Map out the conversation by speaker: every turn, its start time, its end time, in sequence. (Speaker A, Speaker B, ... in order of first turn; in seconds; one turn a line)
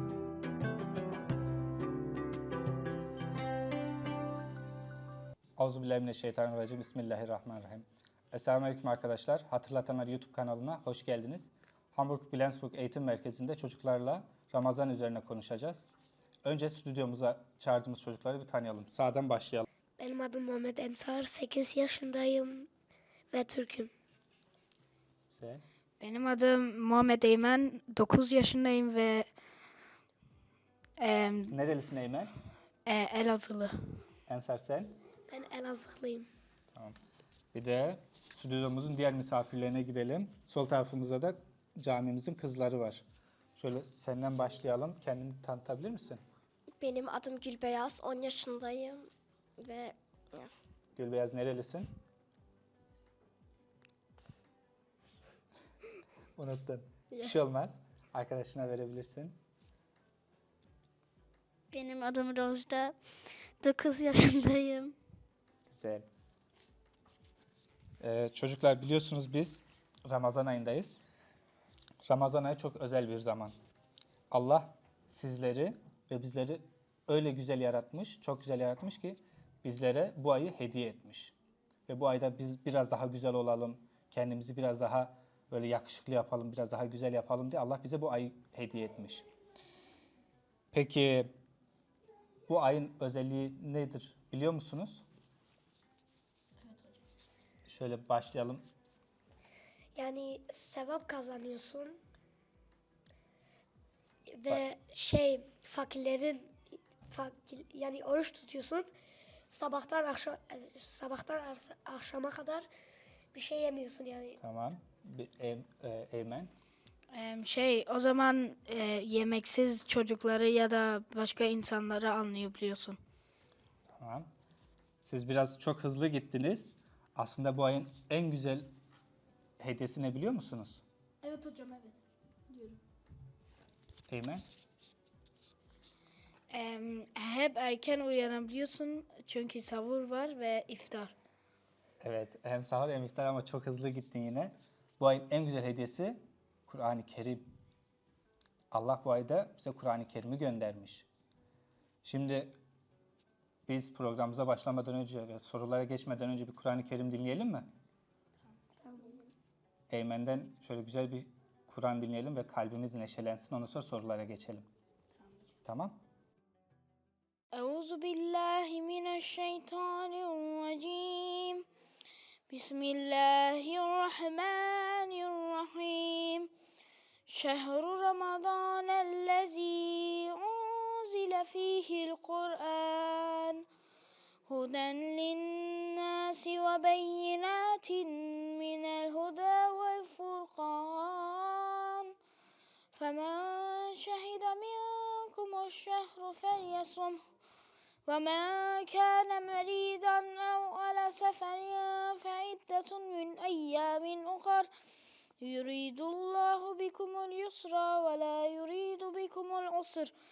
Speaker A: 5.6-15.9
Speaker A: 16.4-19.7
Speaker B: 20.0-22.7
Speaker B: 23.3-23.9
Speaker A: 25.3-25.6
Speaker C: 26.0-29.3
Speaker C: 31.0-31.6
Speaker A: 31.5-32.3
Speaker C: 32.9-34.0
Speaker A: 34.3-35.0
Speaker B: 35.3-36.3
Speaker A: 37.5-43.0
Speaker A: 43.6-46.2
Speaker D: 46.8-50.5
Speaker A: 51.0-52.0
Speaker A: 56.4-59.4
Speaker D: 57.1-57.4
Speaker E: 61.7-65.0
Speaker A: 65.7-66.1
Speaker A: 68.0-71.0
Speaker A: 72.1-73.5
Speaker A: 74.3-81.3
Speaker A: 81.9-89.3
Speaker A: 90.7-91.3
Speaker A: 92.5-95.0
Speaker A: 97.7-98.7
Speaker B: 100.0-102.0
Speaker B: 104.3-108.9
Speaker B: 109.5-112.7
Speaker B: 113.3-114.4
Speaker A: 114.4-116.5
Speaker C: 117.1-123.0
Speaker A: 123.9-124.3
Speaker A: 125.0-128.7
Speaker A: 129.6-130.8
Speaker C: 131.2-132.8
Speaker A: 134.1-134.5
Speaker C: 136.5-141.2
Speaker A: 142.0-147.5
Speaker A: 148.7-151.1
Speaker A: 152.0-152.6
Speaker A: 153.7-157.7
Speaker C: 158.8-159.1
Speaker A: 159.9-164.7
Speaker A: 165.7-166.0
Speaker C: 167.5-171.6
Speaker C: 172.5-176.5
Speaker C: 177.3-183.6
Speaker C: 184.5-192.1
Speaker C: 192.9-197.2
Speaker C: 198.1-204.7
Speaker C: 205.4-210.1